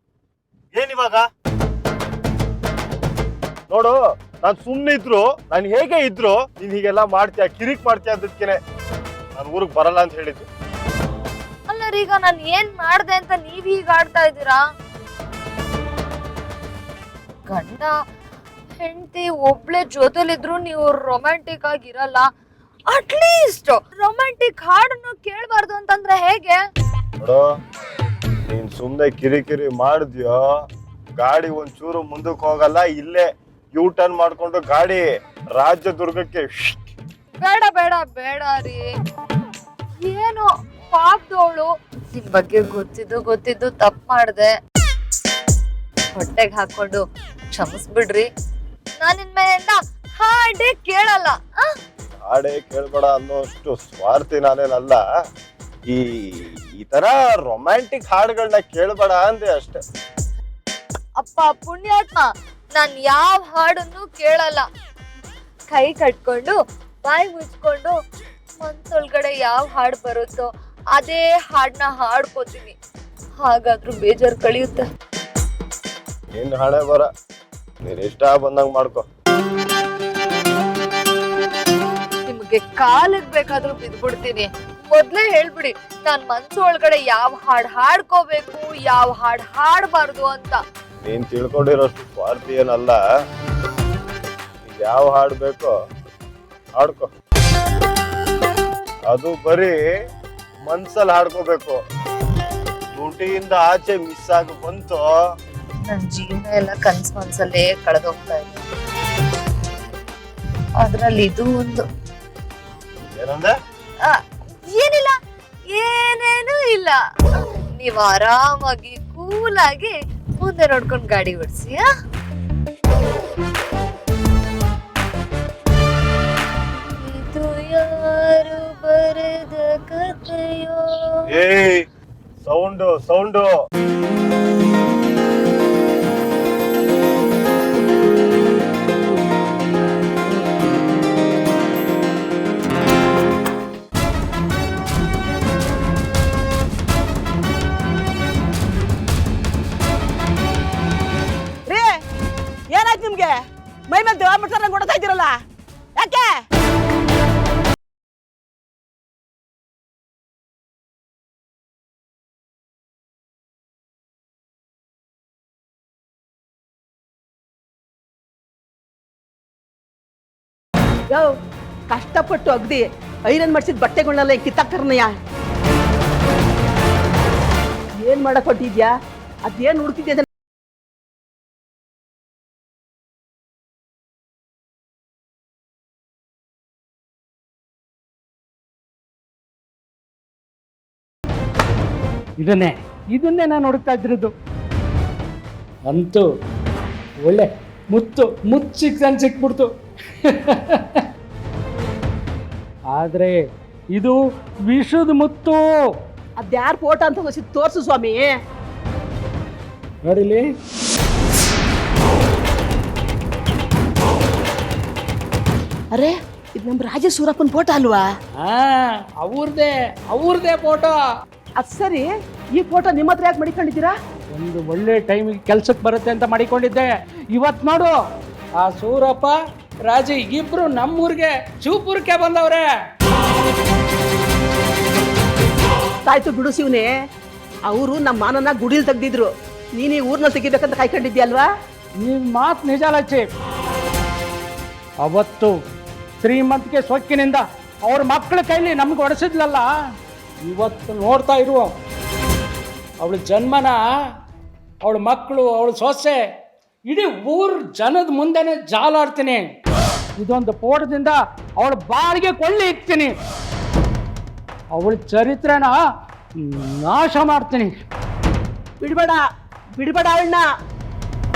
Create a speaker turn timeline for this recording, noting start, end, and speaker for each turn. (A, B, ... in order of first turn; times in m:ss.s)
0:00.7-0:01.2 A
0:03.7-0:08.6 A
0:09.4-0:10.4 A
0:11.7-0:14.6 B
0:17.5-0:17.9 B
0:18.8-0:22.3 B
0:22.9-0:26.6 B
0:28.5-0:30.4 A
0:31.2-0:36.8 A
0:37.4-0:38.9 B
0:40.0-0:44.5 B
0:46.1-0:48.3 B
0:49.0-0:51.4 B
0:52.0-0:55.0 A
0:55.9-0:59.8 A
1:01.2-1:04.6 B
1:05.7-1:08.0 B
1:08.6-1:12.8 B
1:13.4-1:14.8 B
1:16.3-1:17.1 A
1:17.8-1:19.0 A
1:22.2-1:30.6 B
1:31.0-1:33.0 A
1:34.6-1:35.7 A
1:36.8-1:37.1 A
1:39.1-1:39.8 A
1:40.6-1:41.8 A
1:42.9-1:45.0 A
1:45.9-1:48.6 B
1:50.8-1:51.8 B
1:53.2-1:53.5 A
1:54.1-1:55.1 B
1:55.7-1:57.0 B
1:57.6-2:01.8 B
2:07.0-2:11.2 B
2:11.3-2:11.8 A
2:12.4-2:13.5 A
2:32.7-2:35.4 C
2:36.0-2:36.4 C
2:51.9-2:55.1 C
2:58.0-2:58.9 C
2:59.4-3:00.3 C
3:12.4-3:14.3 D
3:15.9-3:16.2 D
3:17.2-3:19.7 D
3:20.2-3:21.0 D
3:22.9-3:23.4 D
3:24.7-3:25.6 D
3:26.4-3:28.3 C
3:30.0-3:30.4 D
3:35.9-3:38.0 C
3:38.4-3:41.0 D
3:41.6-3:43.9 C
3:44.3-3:47.9 D
3:48.6-3:52.7 D
3:56.1-3:56.9 C
3:57.7-4:01.5 C
4:02.0-4:03.2 D
4:05.0-4:05.5 D
4:06.2-4:09.6 D
4:10.4-4:11.7 D
4:13.0-4:13.8 D
4:14.8-4:16.2 D
4:16.9-4:19.5 D
4:20.2-4:23.1 D
4:24.8-4:25.7 D
4:26.4-4:27.7 D
4:28.8-4:29.2 C
4:29.8-4:30.4 C